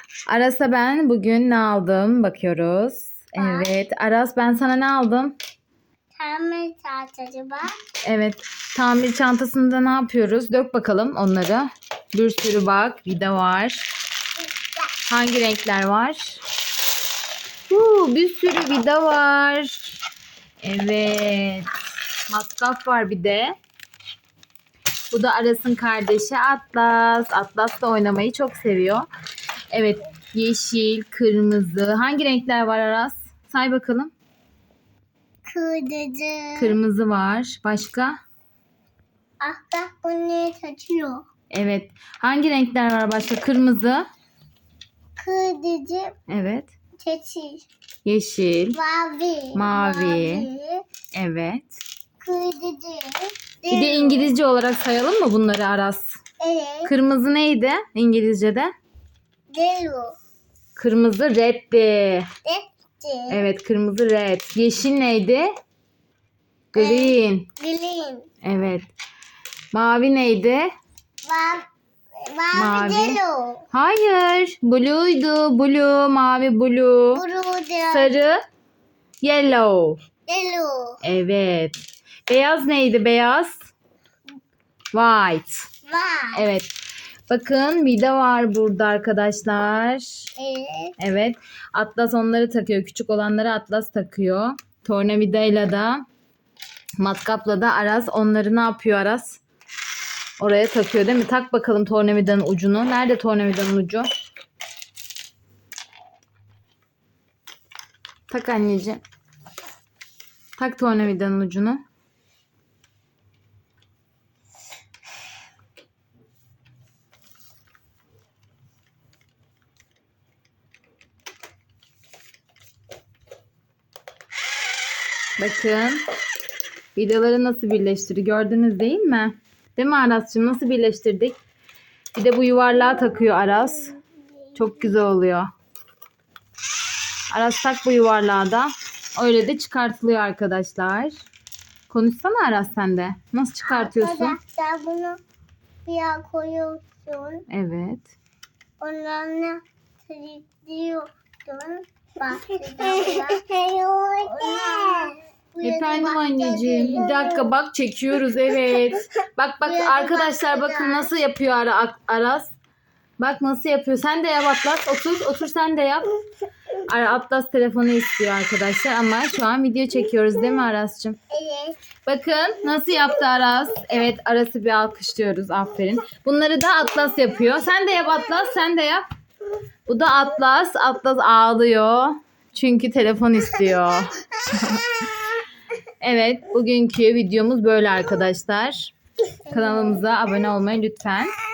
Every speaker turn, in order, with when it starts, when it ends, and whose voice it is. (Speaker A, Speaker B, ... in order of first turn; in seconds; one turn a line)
Speaker A: 0.3-5.3
Speaker B: 3.4-3.7
Speaker B: 6.2-7.7
Speaker A: 8.0-13.9
Speaker A: 15.1-16.4
Speaker A: 17.7-20.0
Speaker A: 20.6-21.7
Speaker A: 22.3-23.6
Speaker A: 25.1-29.1
Speaker A: 29.7-34.1
Speaker B: 35.5-36.8
Speaker A: 36.6-38.2
Speaker B: 39.4-41.2
Speaker A: 41.5-44.1
Speaker B: 45.2-46.1
Speaker A: 46.3-46.7
Speaker B: 47.0-47.7
Speaker A: 48.0-48.8
Speaker B: 48.7-50.9
Speaker A: 49.5-50.5
Speaker A: 51.1-51.8
Speaker B: 52.2-54.3
Speaker A: 53.7-56.2
Speaker B: 56.4-56.9
Speaker A: 56.9-58.7
Speaker B: 59.5-60.2
Speaker A: 60.8-62.3
Speaker B: 62.5-63.4
Speaker A: 63.3-65.5
Speaker A: 66.8-67.5
Speaker B: 66.8-68.3
Speaker A: 68.4-68.9
Speaker A: 69.7-70.7
Speaker B: 71.2-71.7
Speaker B: 72.2-73.7
Speaker A: 72.5-73.2
Speaker A: 73.7-77.2
Speaker B: 77.1-78.2
Speaker A: 77.9-78.4
Speaker A: 79.2-80.0
Speaker B: 80.3-81.0
Speaker A: 81.0-81.8
Speaker A: 82.3-83.7
Speaker A: 84.9-85.7
Speaker B: 85.9-86.4
Speaker A: 86.3-86.7
Speaker A: 87.3-90.3
Speaker B: 90.4-91.0
Speaker A: 91.0-96.0
Speaker A: 97.0-99.4
Speaker A: 100.4-104.1
Speaker A: 108.3-109.0
Speaker A: 110.6-111.8
Speaker A: 125.4-126.0
Speaker A: 127.0-131.4
Speaker A: 132.2-133.9
Speaker B: 133.1-134.0
Speaker A: 134.6-135.5
Speaker A: 137.3-141.2
Speaker A: 141.9-144.4
Speaker B: 143.7-145.2
Speaker B: 145.8-147.5
Speaker A: 147.5-148.1
Speaker B: 148.8-157.5
Speaker A: 155.6-162.5
Speaker B: 159.6-161.2
Speaker A: 163.2-166.1
Speaker A: 166.9-171.2
Speaker B: 171.3-171.8
Speaker A: 172.1-179.1
Speaker A: 179.9-185.0
Speaker A: 186.0-188.9
Speaker B: 189.5-190.0
Speaker A: 189.5-191.3